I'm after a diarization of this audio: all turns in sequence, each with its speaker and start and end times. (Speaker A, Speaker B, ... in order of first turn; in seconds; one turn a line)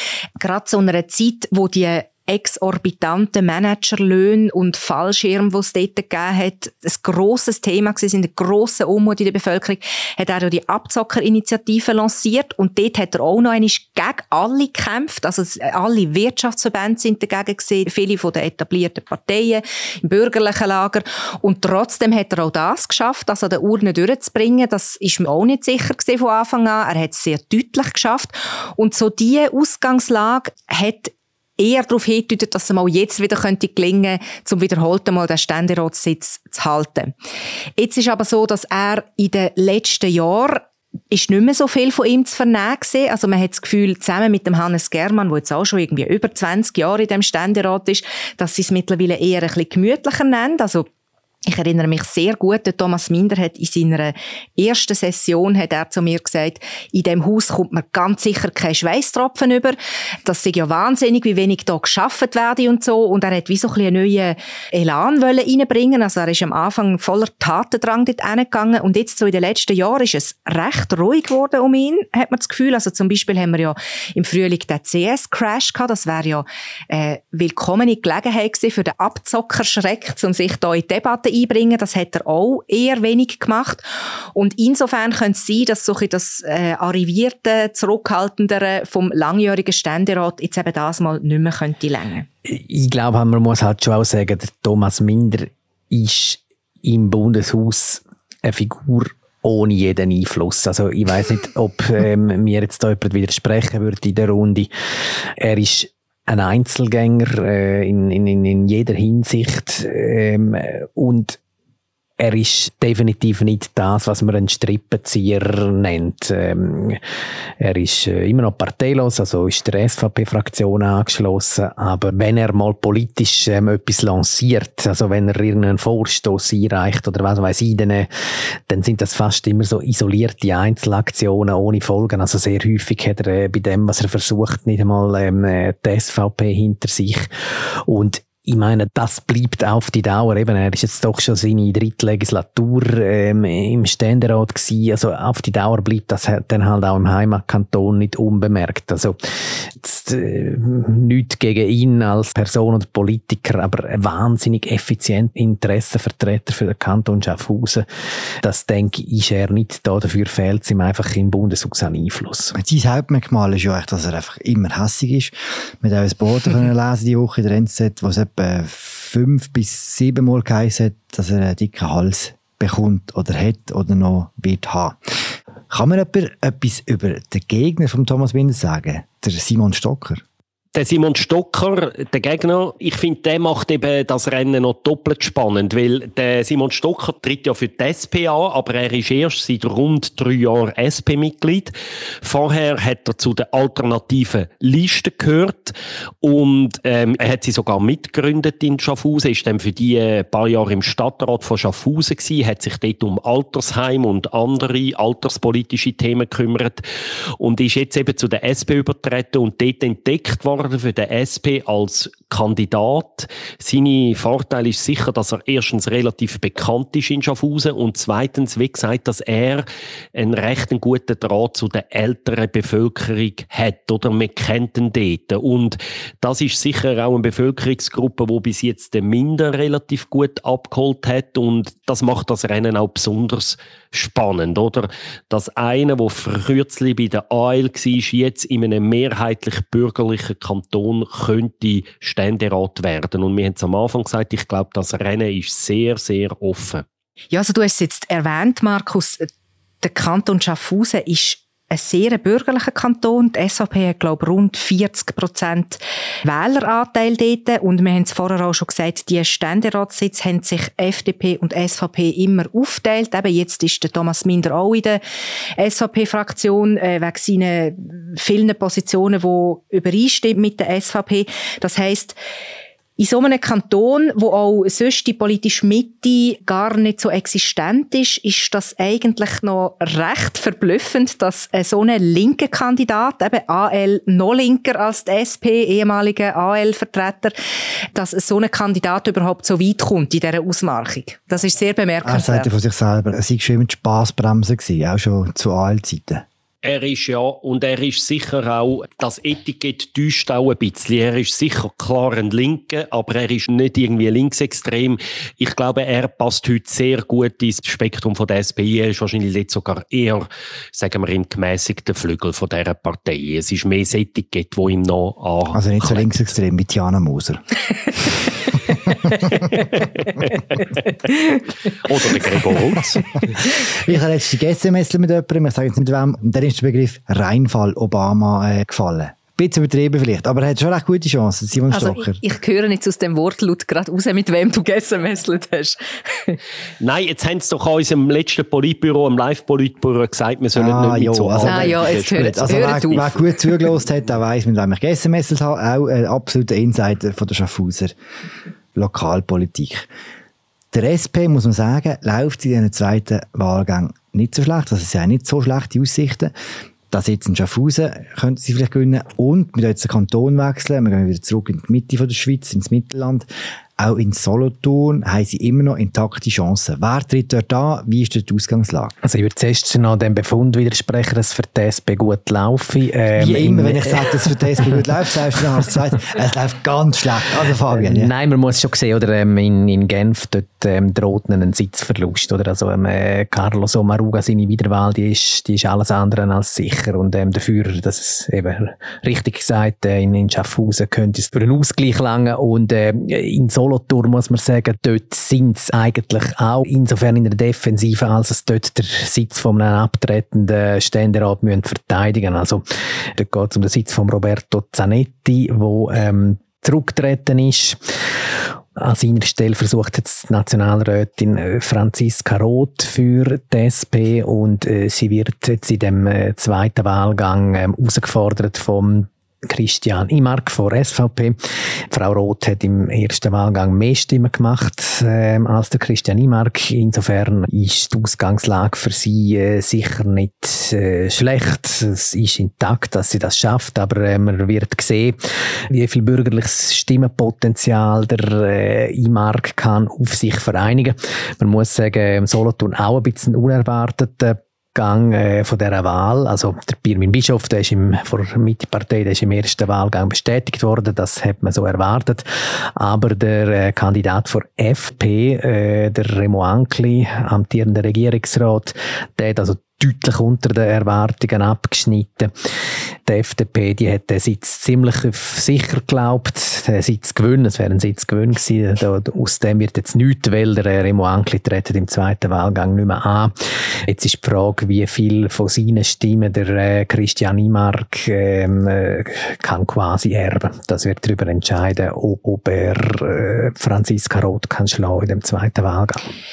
Speaker A: 0.4-37.1
Speaker A: 37.8-50.9
Speaker A: 51.5-83.8
Speaker A: 84.3-92.3
Speaker B: 92.5-104.7
Speaker B: 105.4-111.4
Speaker B: 112.2-117.0
Speaker B: 117.6-128.1
Speaker B: 128.7-137.3
Speaker B: 137.8-157.8
Speaker B: 158.4-162.5
Speaker C: 162.5-175.0
Speaker C: 175.7-180.2
Speaker D: 180.7-206.8
Speaker D: 207.4-246.8
Speaker A: 247.3-249.3
Speaker A: 249.8-265.0
Speaker A: 265.6-272.2
Speaker A: 273.0-287.3
Speaker A: 287.9-292.5
Speaker C: 292.0-296.2
Speaker D: 296.6-316.2
Speaker C: 315.5-317.4
Speaker C: 319.0-319.4
Speaker D: 320.3-320.6
Speaker D: 321.7-323.2
Speaker C: 323.6-332.2
Speaker A: 331.7-336.4
Speaker D: 336.8-343.2
Speaker C: 340.5-347.9
Speaker A: 341.4-343.5
Speaker C: 348.7-349.9
Speaker C: 350.7-356.3
Speaker C: 356.9-368.9
Speaker B: 369.0-374.8
Speaker C: 373.1-378.1
Speaker B: 377.7-402.6
Speaker B: 403.1-407.8
Speaker B: 408.8-435.2
Speaker B: 435.7-462.3
Speaker B: 463.1-486.1